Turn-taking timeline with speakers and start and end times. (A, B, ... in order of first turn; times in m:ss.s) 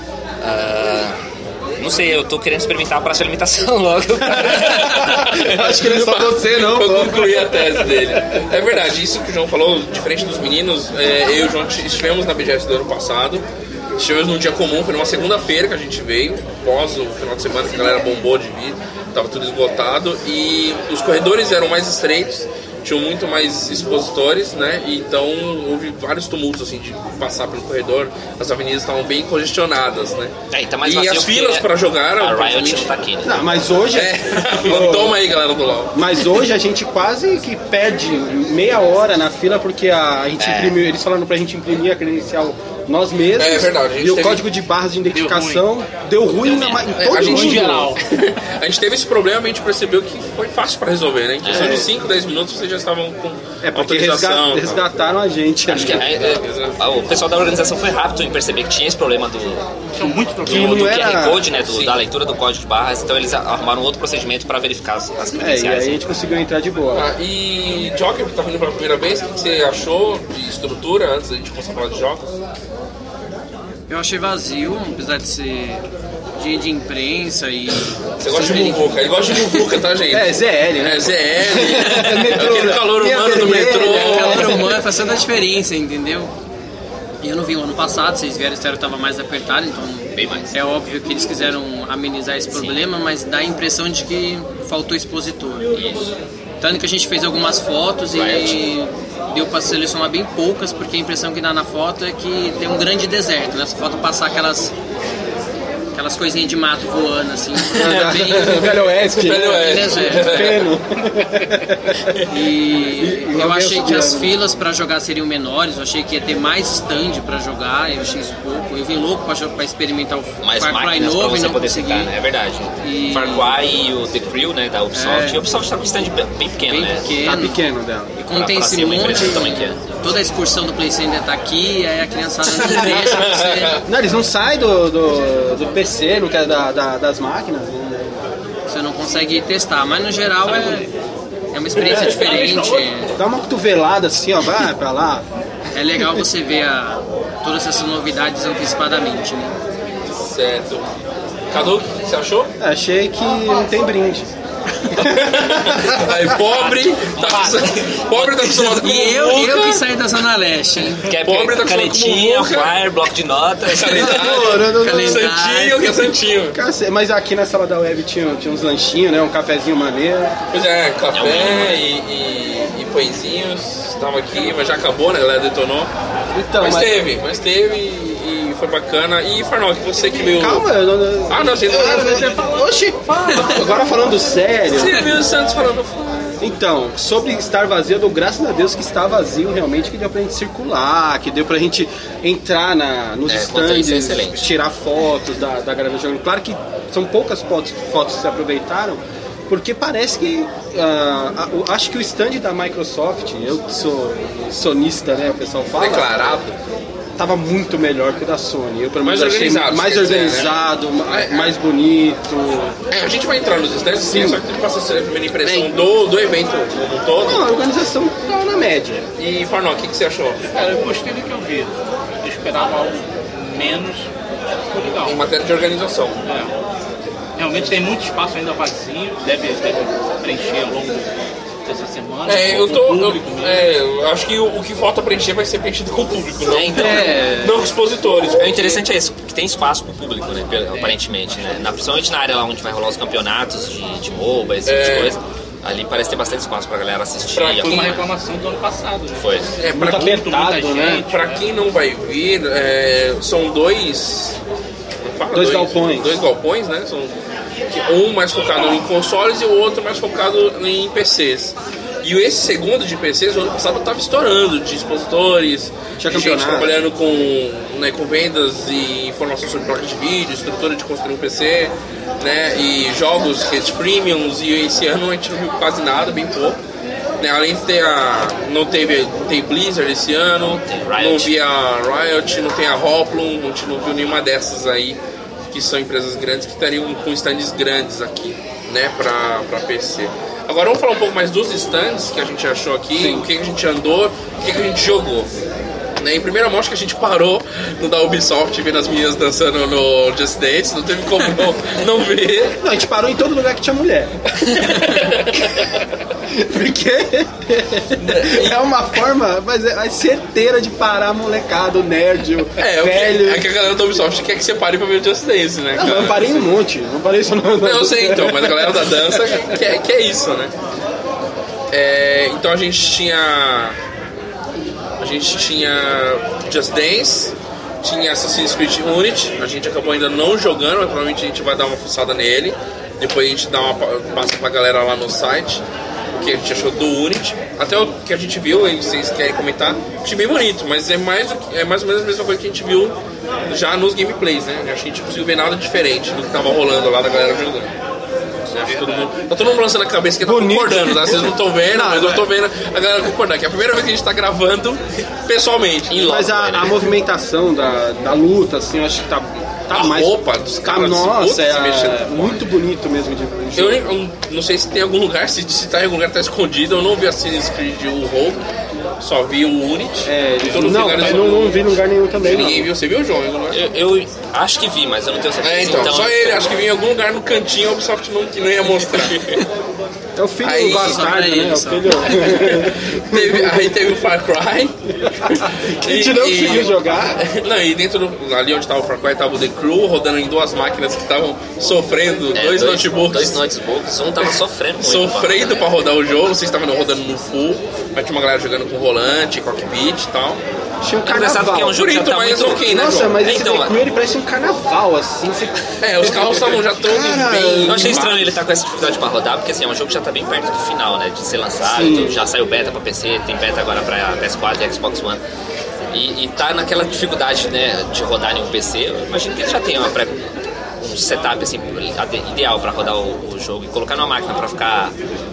0:00.4-0:01.2 A
0:01.8-0:05.4 A
0:04.5-0:13.4 B
0:04.5-0:08.1 C
0:14.0-0:32.9 B
0:30.5-0:31.7 A
0:32.2-0:33.5 A
0:33.2-0:35.2 C
0:33.9-0:36.0 B
0:35.9-0:48.0 C
0:40.4-0:40.8 A
0:43.4-0:44.4 B
0:45.1-0:45.6 D
0:46.4-0:46.9 A
0:46.9-0:54.8 B
0:47.2-0:48.0 D
0:51.4-0:51.9 A
0:51.5-0:51.9 C
0:53.6-0:56.1 C
0:55.7-0:59.7 A
0:55.7-0:56.8 B
0:59.9-1:01.1 D
1:00.4-1:06.0 A
1:00.4-1:01.5 C
1:01.6-1:02.0 B
1:05.4-1:07.1 C
1:06.9-1:12.3 B
1:13.9-1:19.1 E
1:18.2-1:24.6 B
1:20.1-1:24.8 C
1:23.8-1:26.3 E
1:27.2-1:35.7 E
1:30.2-1:30.5 A
1:32.5-1:32.8 A
1:35.8-1:36.1 A
1:36.6-1:44.8 E
1:38.1-1:38.6 A
1:45.9-1:50.6 E
1:47.7-1:52.2 C
1:49.0-1:50.8 B
1:52.2-2:02.1 E
1:53.0-1:54.4 C
2:00.4-2:07.1 A
2:02.8-2:03.5 E
2:04.9-2:05.5 E
2:06.7-2:07.6 E
2:07.2-2:08.2 C
2:08.2-2:13.8 E
2:08.3-2:09.8 A
2:12.5-2:13.8 B
2:13.8-2:18.2 C
2:18.7-2:20.9 E
2:20.5-2:20.9 D
2:21.5-2:23.1 E
2:21.8-2:22.7 B
2:21.9-2:22.2 C
2:21.9-2:23.0 D
2:23.2-2:25.2 C
2:25.8-2:29.6 E
2:30.2-2:30.9 B
2:31.5-2:32.5 B
2:32.6-2:34.3 C
2:34.9-2:36.3 C
2:34.9-2:39.8 B
2:37.1-2:37.6 D
2:38.2-2:41.1 E
2:41.0-2:44.5 A
2:41.2-2:42.8 B
2:43.6-2:46.6 B
2:44.0-2:45.3 C
2:44.6-2:46.0 E
2:46.5-2:50.4 C
2:50.5-2:55.9 B
2:51.1-2:51.8 A
2:56.3-2:57.0 C
2:56.6-3:00.7 B
3:00.2-3:05.2 C
3:01.3-3:02.6 B
3:04.7-3:06.4 B
3:06.4-3:26.1 C
3:13.3-3:14.5 A
3:25.8-3:26.6 B
3:27.2-3:32.8 C
3:29.0-3:31.6 B
3:32.9-3:37.6 B
3:34.1-3:34.4 C
3:35.4-3:35.8 C
3:37.2-3:39.1 C
3:39.2-3:40.4 B
3:40.5-3:44.1 D
3:44.7-3:45.2 D
3:45.0-3:46.2 B
3:46.3-3:46.5 D
3:47.4-3:51.1 D
3:51.6-3:53.7 D
3:52.3-3:58.8 B
3:56.5-3:57.5 A
3:58.4-4:08.0 A
4:00.7-4:01.3 D
4:04.6-4:05.2 B
4:07.3-4:08.0 B
4:07.6-4:11.4 D
4:09.2-4:09.5 A
4:09.6-4:10.2 B
4:09.8-4:11.1 C
4:11.0-4:14.4 B
4:15.0-4:17.2 B
4:15.3-4:16.2 C
4:17.7-4:36.6 B
4:26.0-4:26.8 C
4:37.2-4:45.0 B
4:40.7-4:41.3 A
4:45.5-4:55.3 B
4:53.0-4:53.3 C
4:56.0-5:02.6 B
5:02.6-5:05.1 C
5:04.3-5:05.8 B
5:06.3-5:13.5 C
5:08.0-5:08.6 B
5:12.6-5:16.4 B
5:15.8-5:19.0 C
5:17.6-5:20.5 B
5:21.7-5:23.8 B
5:25.0-5:35.6 B
5:36.2-5:43.0 B
5:43.5-5:47.7 B
5:48.5-5:56.1 B
5:48.7-5:49.0 D
5:50.2-5:52.3 C
5:55.9-5:56.9 A
5:55.9-6:03.9 C
5:59.7-6:02.4 B
6:03.6-6:08.4 B
6:09.0-6:11.7 B
6:10.1-6:12.7 C
6:12.2-6:13.6 B
6:13.5-6:16.5 A
6:15.4-6:19.2 B
6:18.9-6:19.4 A
6:20.2-6:23.7 C
6:20.4-6:21.1 B
6:20.7-6:22.3 E
6:22.1-6:33.4 B
6:25.2-6:27.2 C
6:32.3-6:35.7 A
6:34.2-6:40.4 B
6:40.8-6:41.8 C
6:41.1-6:43.8 A
6:41.6-6:43.2 B
6:42.6-6:48.1 C
6:45.8-6:48.3 B
6:47.6-6:55.2 A
6:51.6-6:52.2 C
6:55.9-7:00.3 A
7:00.8-7:05.0 A